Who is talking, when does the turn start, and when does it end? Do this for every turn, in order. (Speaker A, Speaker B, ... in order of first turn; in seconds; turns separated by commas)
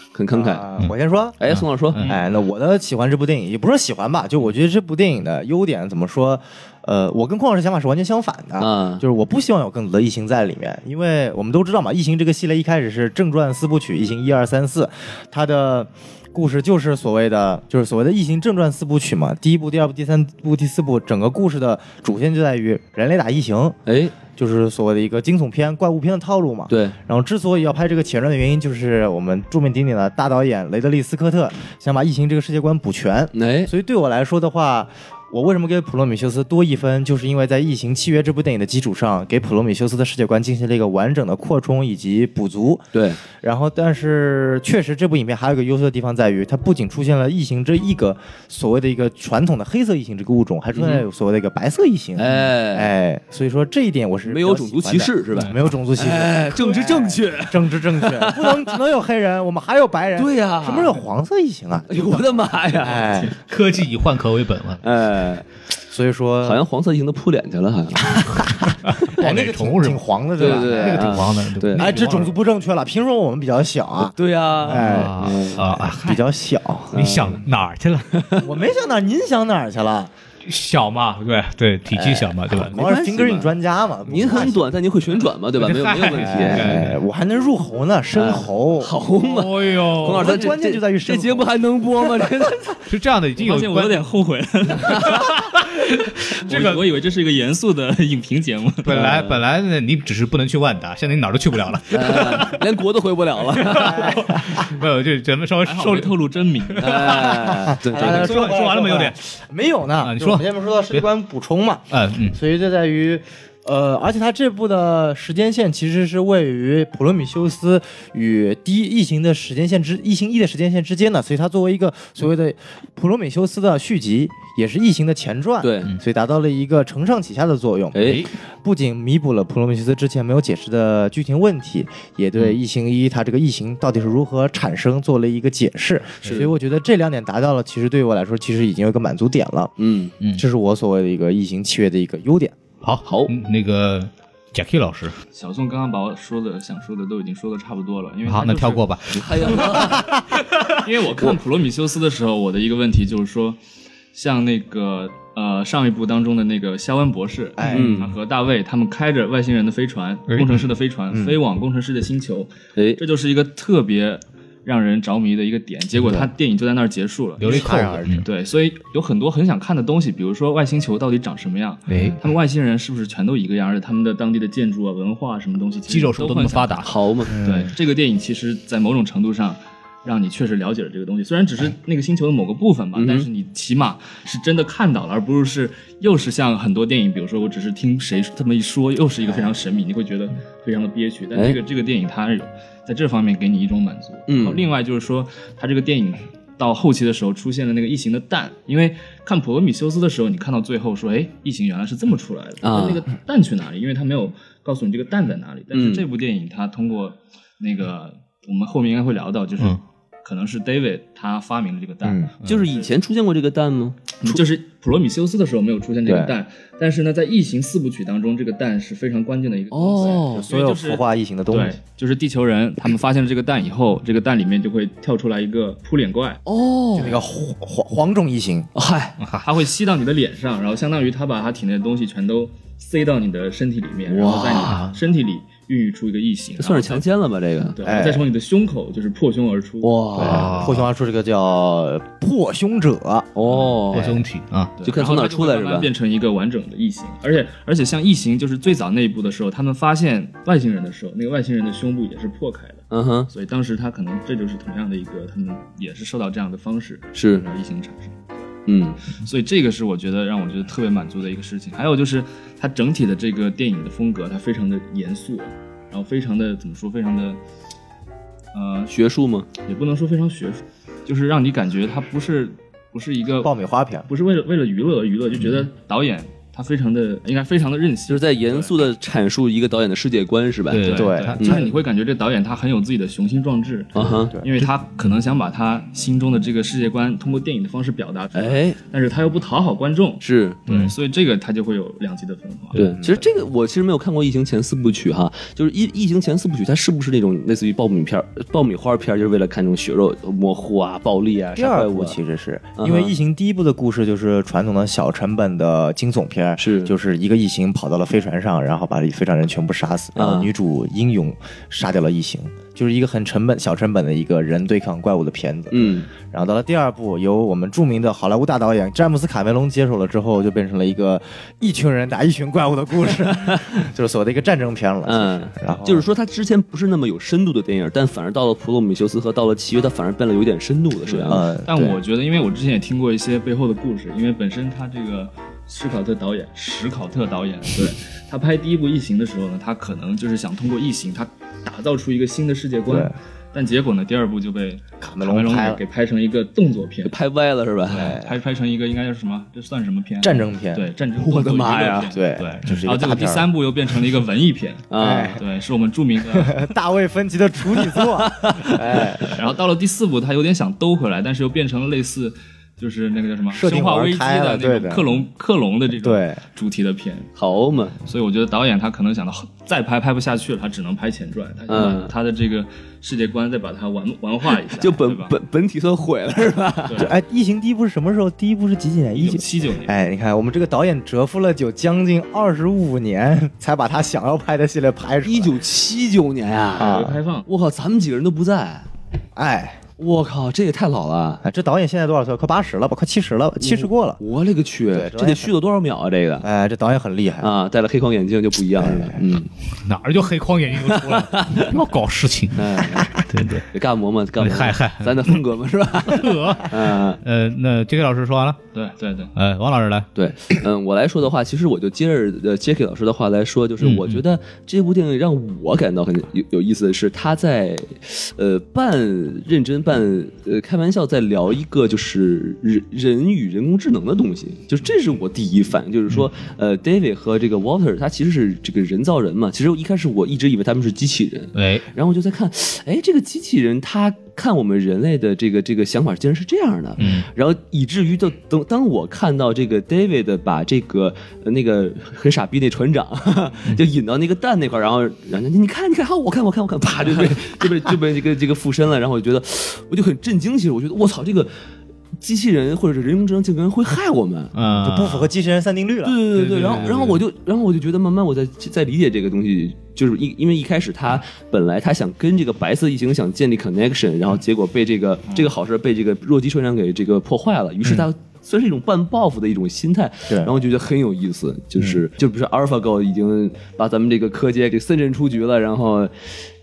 Speaker A: 0.1-0.7, Speaker B: 0.3-1.4, Speaker A: 1.4-2.0, Speaker C: 1.5-2.2, Speaker B: 2.0-23.8, Speaker A: 8.6-9.0, Speaker A: 23.9-24.1, Speaker B: 24.3-63.4, Speaker A: 26.7-26.9, Speaker A: 33.3-33.7, Speaker A: 42.9-43.2, Speaker A: 50.7-51.0, Speaker A: 52.2-52.9, Speaker A: 54.2-58.7, Speaker A: 60.1-61.0, Speaker A: 61.9-63.3, Speaker C: 63.4-64.8, Speaker A: 64.8-65.4, Speaker B: 65.9-66.6, Speaker A: 66.4-68.2, Speaker C: 68.2-72.3, Speaker B: 69.0-77.4, Speaker A: 70.4-71.9, Speaker A: 74.0-75.7, Speaker C: 74.7-76.2, Speaker A: 76.9-77.4, Speaker C: 76.9-78.3, Speaker A: 78.1-78.4, Speaker B: 78.4-80.1, Speaker C: 80.4-82.8, Speaker B: 81.9-84.7, Speaker A: 82.7-83.5, Speaker A: 84.1-86.8, Speaker C: 85.5-87.0, Speaker B: 86.2-89.0, Speaker A: 88.1-92.8, Speaker C: 89.2-90.4, Speaker B: 90.0-91.5, Speaker C: 92.9-94.0, Speaker D: 93.4-95.4, Speaker C: 95.0-96.8, Speaker D: 96.4-99.0, Speaker C: 98.8-102.6, Speaker A: 98.9-99.4, Speaker A: 101.9-104.2, Speaker C: 103.6-106.1, Speaker B: 103.7-104.6, Speaker D: 105.6-107.5, Speaker C: 106.7-109.2, Speaker A: 106.8-108.5, Speaker B: 107.6-139.7, Speaker C: 110.0-111.0, Speaker C: 111.9-112.4, Speaker A: 125.6-125.9, Speaker A: 127.9-128.3, Speaker A: 136.2-136.5, Speaker A: 139.8-140.1, Speaker B: 140.3-142.6, Speaker C: 142.8-145.2, Speaker A: 143.0-143.3, Speaker D: 145.3-149.9, Speaker C: 148.3-149.9, Speaker A: 149.1-150.1, Speaker D: 150.7-153.6, Speaker D: 154.1-212.9, Speaker B: 157.6-157.9, Speaker A: 157.7-158.1, Speaker C: 160.3-160.6, Speaker B: 161.1-161.4, Speaker A: 162.8-163.0, Speaker C: 167.4-168.2, Speaker B: 167.4-168.2, Speaker B: 171.9-172.2, Speaker C: 175.9-176.9, Speaker A: 176.8-177.4, Speaker B: 177.3-177.7, Speaker A: 182.9-183.3, Speaker A: 194.3-194.6, Speaker A: 202.6-203.0, Speaker A: 205.7-206.1, Speaker B: 212.0-212.3, Speaker A: 212.4-214.4, Speaker D: 214.2-226.4, Speaker B: 216.1-216.3, Speaker A: 219.7-220.5, Speaker B: 220.3-221.8, Speaker A: 226.4-227.2, Speaker B: 226.9-228.7, Speaker A: 228.7-229.2, Speaker C: 229.2-229.5, Speaker D: 229.4-237.1, Speaker A: 234.1-234.8, Speaker C: 234.6-234.9, Speaker A: 236.6-237.8, Speaker D: 237.7-240.3, Speaker B: 237.8-238.3, Speaker A: 239.8-240.6, Speaker B: 240.2-243.3, Speaker C: 240.2-240.9, Speaker A: 243.3-244.2, Speaker C: 243.9-244.7, Speaker D: 244.8-258.2, Speaker A: 244.8-245.9, Speaker A: 252.9-253.3, Speaker A: 257.1-257.4, Speaker A: 258.7-259.0, Speaker D: 259.1-267.4, Speaker D: 268.5-268.9, Speaker A: 268.9-269.5, Speaker D: 269.6-273.5, Speaker B: 273.4-274.1, Speaker D: 274.1-278.8, Speaker A: 278.1-281.6, Speaker C: 280.7-281.6, Speaker D: 280.8-292.8, Speaker B: 280.9-281.7, Speaker A: 283.9-284.3, Speaker A: 288.3-288.8, Speaker A: 290.2-290.6, Speaker C: 290.7-290.9, Speaker A: 292.7-302.2, Speaker B: 293.0-293.2, Speaker B: 301.6-326.1, Speaker A: 302.8-303.1, Speaker A: 306.6-306.9, Speaker A: 310.1-310.5, Speaker A: 315.7-316.1, Speaker A: 325.1-331.4, Speaker D: 331.1-347.1, Speaker B: 331.3-332.0, Speaker B: 342.9-343.1, Speaker B: 345.0-345.8, Speaker A: 347.0-348.1, Speaker D: 347.9-356.7, Speaker B: 347.9-348.3, Speaker B: 350.2-350.9, Speaker A: 351.1-352.1, Speaker B: 352.1-353.5, Speaker A: 354.9-355.4, Speaker B: 355.0-355.4, Speaker B: 356.3-359.3, Speaker A: 357.9-359.3, Speaker D: 359.3-367.3, Speaker B: 363.5-365.2, Speaker B: 365.9-366.4, Speaker A: 367.4-368.0, Speaker D: 368.0-375.3, Speaker A: 371.7-372.1, Speaker A: 374.6-377.1, Speaker D: 376.9-377.1, Speaker B: 377.0-385.6, Speaker D: 379.1-380.0, Speaker A: 385.2-388.9, Speaker B: 386.8-387.2, Speaker D: 386.8-387.5, Speaker B: 389.4-389.8, Speaker A: 390.0-391.4, Speaker B: 391.4-394.2, Speaker A: 393.6-396.4, Speaker B: 394.9-395.5, Speaker B: 396.4-397.5, Speaker A: 397.4-399.5, Speaker B: 398.8-399.2, Speaker C: 399.8-403.7, Speaker A: 400.8-401.7, Speaker A: 402.5-403.1, Speaker A: 403.7-407.2, Speaker C: 404.4-405.4, Speaker C: 406.0-408.6, Speaker D: 408.7-409.3, Speaker C: 409.4-410.1, Speaker A: 410.1-451.5, Speaker C: 413.8-414.2, Speaker C: 431.5-431.9, Speaker C: 437.0-437.3, Speaker A: 452.2-454.5, Speaker C: 454.5-455.3, Speaker B: 454.7-456.9, Speaker A: 456.0-476.3, Speaker C: 456.4-457.2